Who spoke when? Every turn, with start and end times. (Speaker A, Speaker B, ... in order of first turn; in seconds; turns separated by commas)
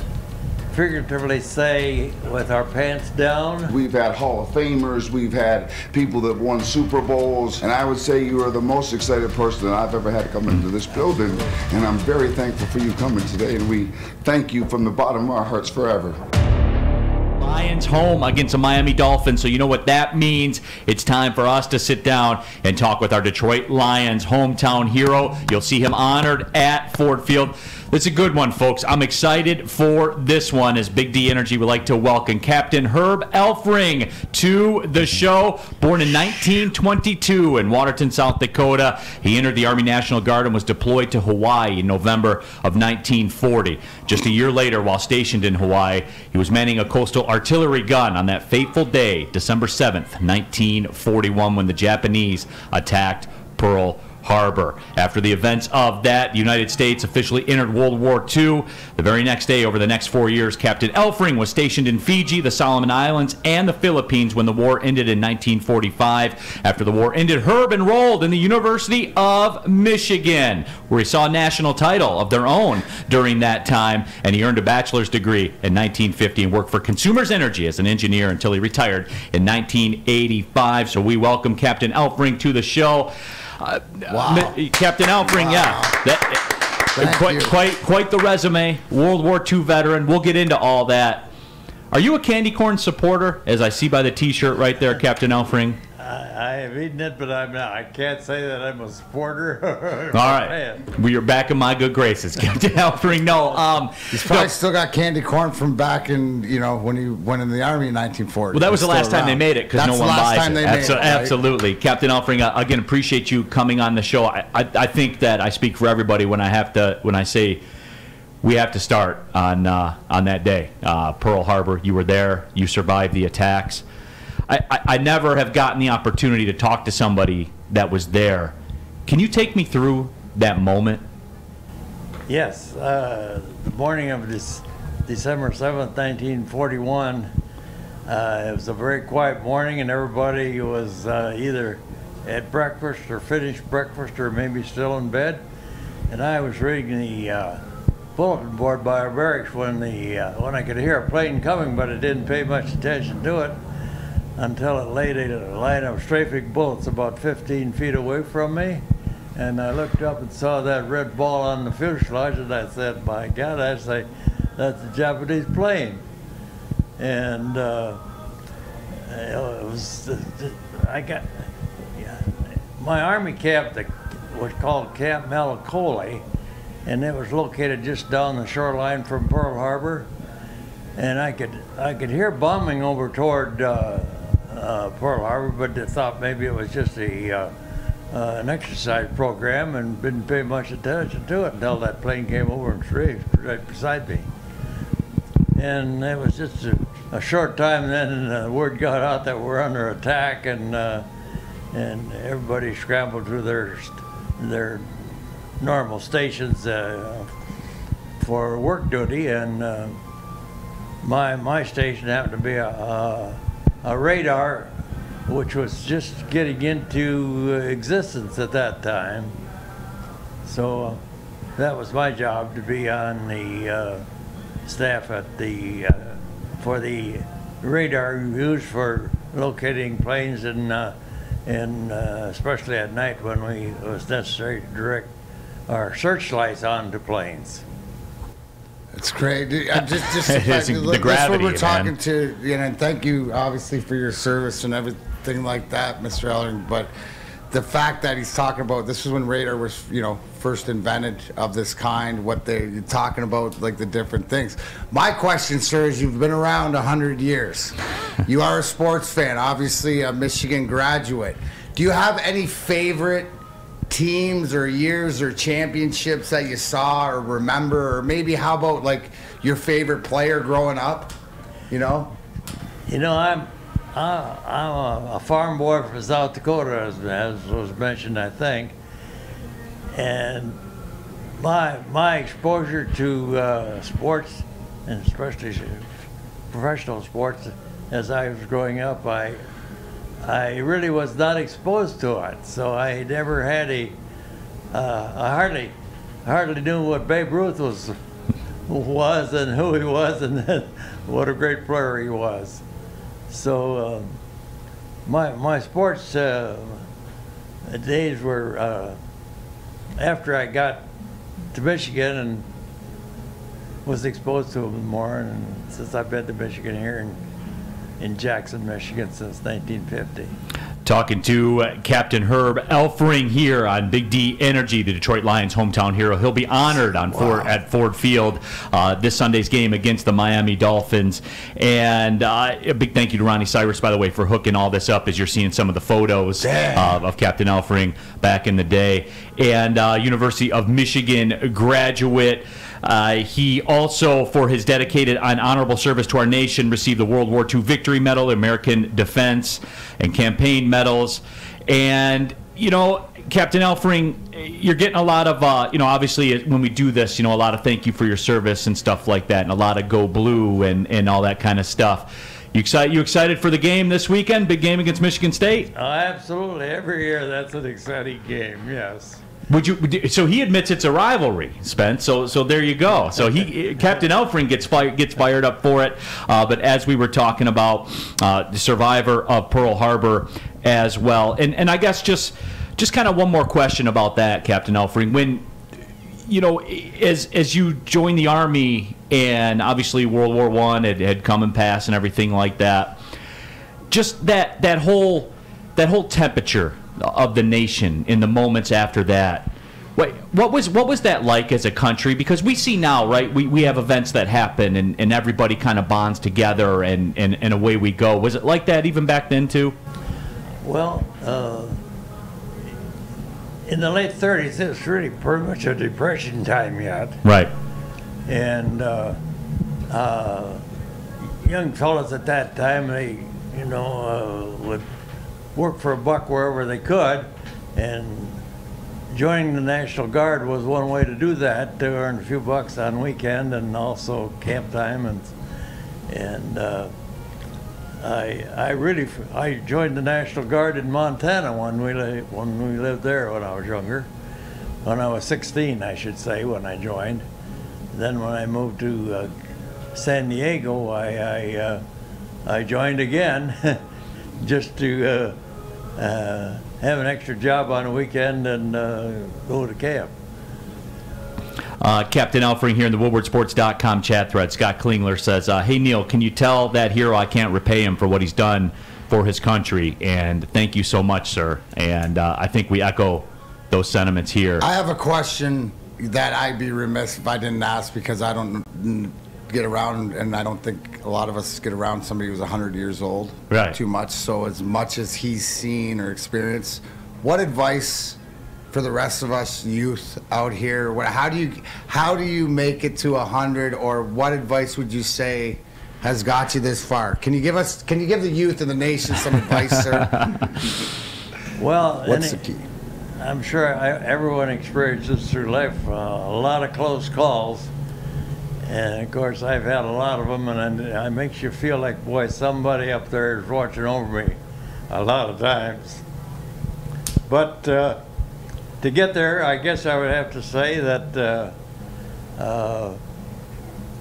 Speaker A: 0.7-3.7, Speaker B: 3.7-16.2, Speaker C: 17.4-91.3, Speaker D: 84.1-84.6, Speaker D: 85.2-86.1, Speaker D: 86.9-87.6, Speaker C: 91.9-95.8, Speaker A: 96.0-100.8, Speaker C: 100.1-104.5, Speaker D: 104.1-111.3, Speaker C: 108.5-117.6, Speaker C: 118.4-123.8, Speaker C: 124.5-128.6, Speaker C: 129.1-131.0, Speaker A: 132.3-137.3, Speaker A: 138.1-145.4, Speaker A: 146.1-147.6, Speaker A: 148.2-153.6, Speaker A: 154.4-158.8, Speaker A: 159.3-166.0, Speaker A: 167.0-168.0, Speaker A: 168.9-176.2, Speaker A: 176.9-180.1, Speaker A: 181.0-187.5, Speaker A: 188.1-194.3, Speaker A: 195.6-201.1, Speaker A: 201.7-207.3, Speaker A: 208.2-210.0, Speaker A: 211.0-214.8, Speaker A: 215.3-219.3, Speaker A: 220.4-221.0, Speaker A: 221.6-224.1, Speaker A: 224.7-230.9, Speaker A: 231.5-235.1, Speaker A: 235.7-237.6, Speaker D: 238.9-246.9, Speaker C: 240.2-241.9, Speaker D: 247.5-263.3, Speaker D: 263.9-271.1, Speaker D: 271.7-272.2, Speaker A: 272.9-278.8, Speaker A: 279.9-280.6, Speaker A: 281.4-285.9, Speaker A: 286.5-289.4, Speaker A: 290.2-293.9, Speaker A: 294.7-295.7, Speaker A: 296.2-297.9, Speaker A: 298.7-302.6, Speaker A: 303.3-304.1, Speaker A: 305.1-306.8, Speaker A: 307.6-309.0, Speaker A: 310.0-310.9, Speaker A: 311.5-312.4, Speaker A: 313.9-317.2, Speaker A: 318.0-320.3, Speaker C: 320.9-365.7, Speaker A: 365.8-369.2, Speaker C: 369.5-385.4, Speaker C: 386.3-393.0, Speaker C: 393.9-409.8, Speaker A: 410.6-411.8, Speaker A: 413.7-417.2, Speaker C: 417.2-417.5, Speaker A: 418.3-419.2, Speaker A: 419.9-420.6, Speaker A: 421.4-424.9, Speaker A: 425.6-428.4, Speaker A: 429.1-435.3, Speaker A: 436.1-436.9, Speaker A: 438.0-444.1, Speaker A: 444.8-447.2, Speaker A: 447.9-449.3, Speaker A: 449.9-451.8, Speaker A: 452.4-453.8, Speaker A: 454.4-455.4, Speaker A: 456.0-460.1, Speaker C: 461.8-474.7, Speaker D: 474.6-488.2, Speaker C: 483.5-483.8, Speaker D: 488.7-500.5, Speaker A: 501.6-502.6, Speaker D: 502.1-502.6, Speaker A: 503.2-507.7, Speaker A: 508.6-514.4, Speaker A: 514.9-516.0, Speaker A: 517.3-518.0, Speaker A: 518.8-521.5, Speaker A: 522.4-523.0